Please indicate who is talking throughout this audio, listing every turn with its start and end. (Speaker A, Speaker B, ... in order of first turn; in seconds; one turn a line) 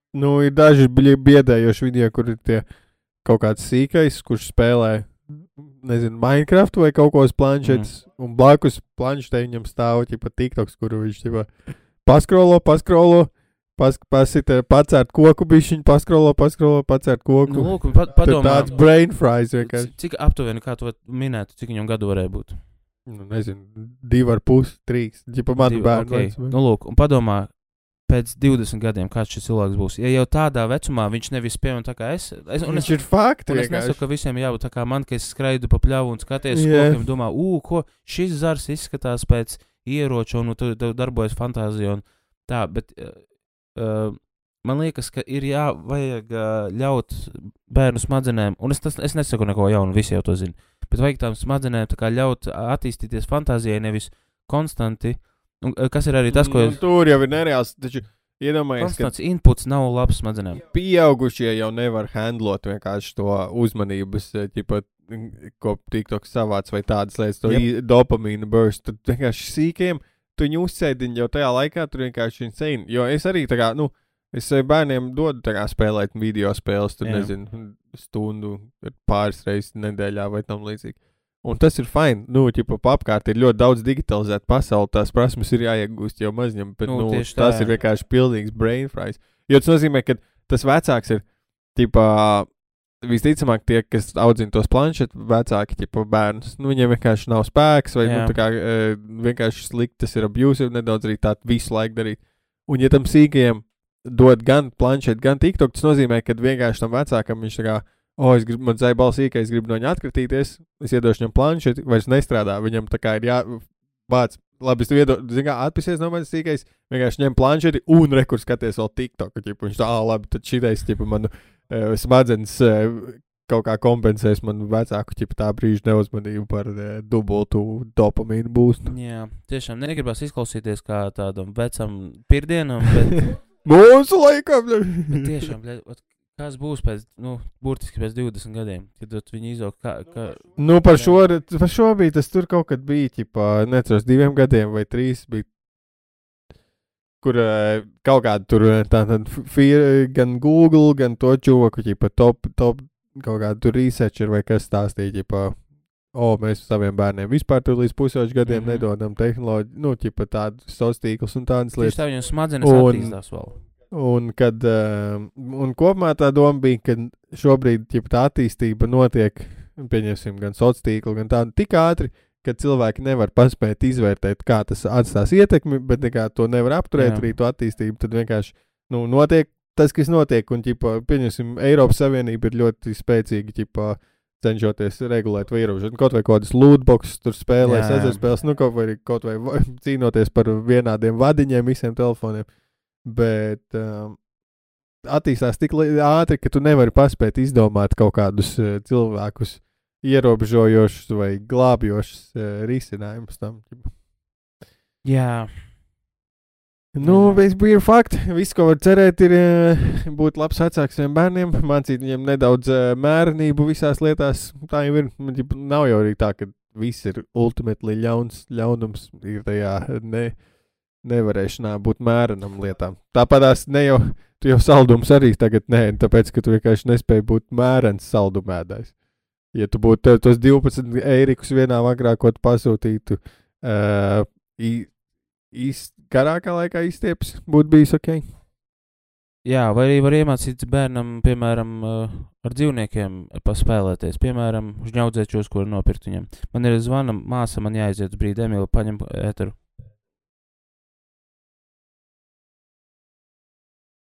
Speaker A: 0.1-2.6
Speaker A: 3.2-11.5
Speaker B: 7.6-7.9
Speaker A: 12.1-19.9
Speaker B: 17.5-18.8
Speaker B: 19.6-22.6
Speaker A: 23.1-26.6
Speaker B: 25.6-27.5
Speaker B: 28.1-56.8
Speaker A: 32.6-34.0
Speaker A: 36.5-37.0
Speaker A: 56.3-59.1
Speaker B: 58.8-60.6
Speaker A: 60.6-92.5
Speaker B: 77.0-77.3
Speaker B: 86.9-87.7
Speaker A: 93.0-128.9
Speaker B: 98.0-98.3
Speaker B: 128.8-133.3
Speaker A: 133.6-135.4
Speaker B: 135.1-141.2
Speaker A: 140.6-145.5
Speaker A: 147.2-155.6
Speaker A: 156.1-162.0
Speaker B: 158.4-158.9
Speaker B: 161.8-163.6
Speaker A: 162.6-163.2
Speaker A: 163.9-192.5
Speaker B: 177.0-177.3
Speaker B: 187.6-188.2
Speaker A: 193.1-194.2
Speaker A: 195.1-203.9
Speaker B: 205.0-205.5
Speaker A: 206.9-220.4
Speaker B: 207.0-207.4
Speaker A: 221.0-228.9
Speaker A: 229.5-234.9
Speaker A: 235.5-238.3
Speaker B: 239.4-249.6